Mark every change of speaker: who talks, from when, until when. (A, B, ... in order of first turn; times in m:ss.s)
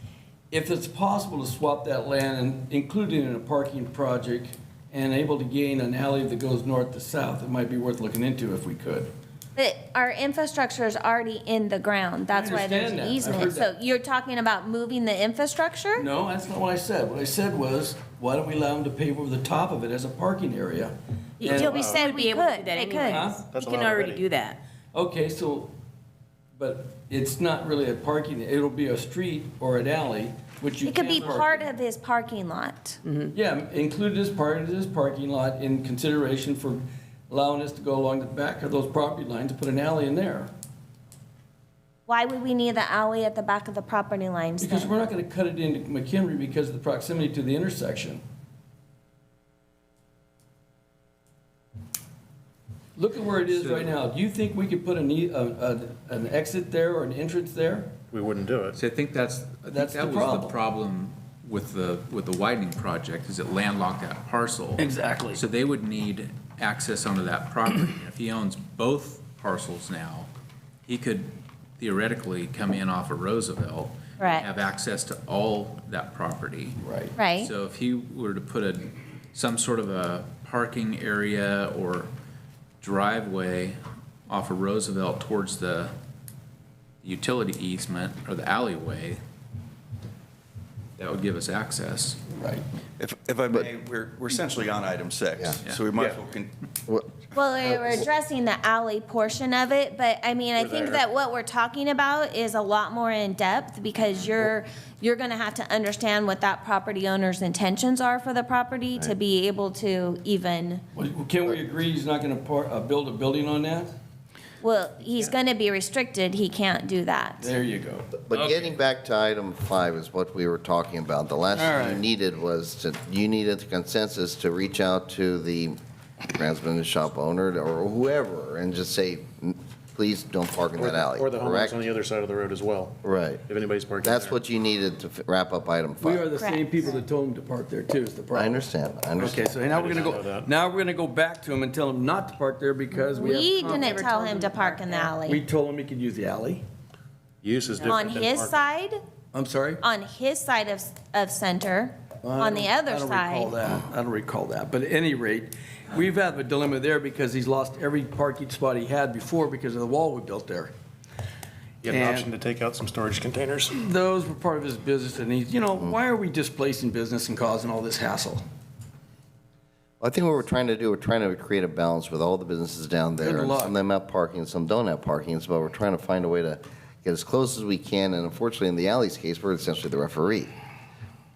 0:00.5-0:09.1 A
0:09.6-0:16.0 B
0:12.3-0:13.7 A
0:16.0-0:21.7 A
0:21.4-0:24.6 C
0:21.5-0:22.1 D
0:21.6-0:23.3 B
0:22.8-0:23.4 A
0:23.5-0:24.2 D
0:24.9-0:25.7 A
0:26.6-0:31.7 A
0:30.8-0:33.0 B
0:33.0-0:33.3 C
0:33.3-0:40.5 A
0:42.1-0:44.9 B
0:44.6-0:48.2 A
0:53.0-0:58.0 A
0:53.5-0:53.9 E
0:58.1-0:58.8 D
0:58.8-1:10.3 E
0:59.7-1:00.6 A
1:04.8-1:05.4 A
1:10.9-1:16.8 E
1:14.2-1:14.4 B
1:16.8-1:17.2 A
1:17.2-1:17.5 B
1:17.4-1:22.1 E
1:22.8-1:23.8 E
1:24.3-1:25.9 E
1:27.0-1:29.2 E
1:31.0-1:32.2 E
1:32.3-1:32.6 A
1:33.0-1:34.6 F
1:35.5-1:36.5 F
1:35.9-1:36.2 D
1:36.9-1:37.2 G
1:37.4-1:50.8 B
1:40.6-1:41.0 D
1:51.0-1:53.9 A
1:54.6-1:57.5 B
1:57.4-1:58.5 A
1:58.2-2:05.8 G
2:01.5-2:02.0 A
2:06.3-2:11.8 G
2:10.8-2:14.4 D
2:13.0-2:13.4 G
2:14.0-2:16.2 G
2:16.0-2:18.6 A
2:16.4-2:16.9 B
2:18.3-2:19.5 G
2:19.2-2:24.0 A
2:19.6-2:20.5 D
2:23.1-2:25.2 C
2:23.2-2:25.4 B
2:25.2-2:26.6 A
2:27.4-2:28.6 D
2:27.8-2:29.0 B
2:29.3-2:29.8 A
2:29.8-2:33.5 B
2:32.2-2:40.7 A
2:41.8-2:43.8 D
2:41.8-2:42.3 A
2:43.7-2:48.4 A
2:50.0-3:00.5 G
2:53.2-2:53.8 A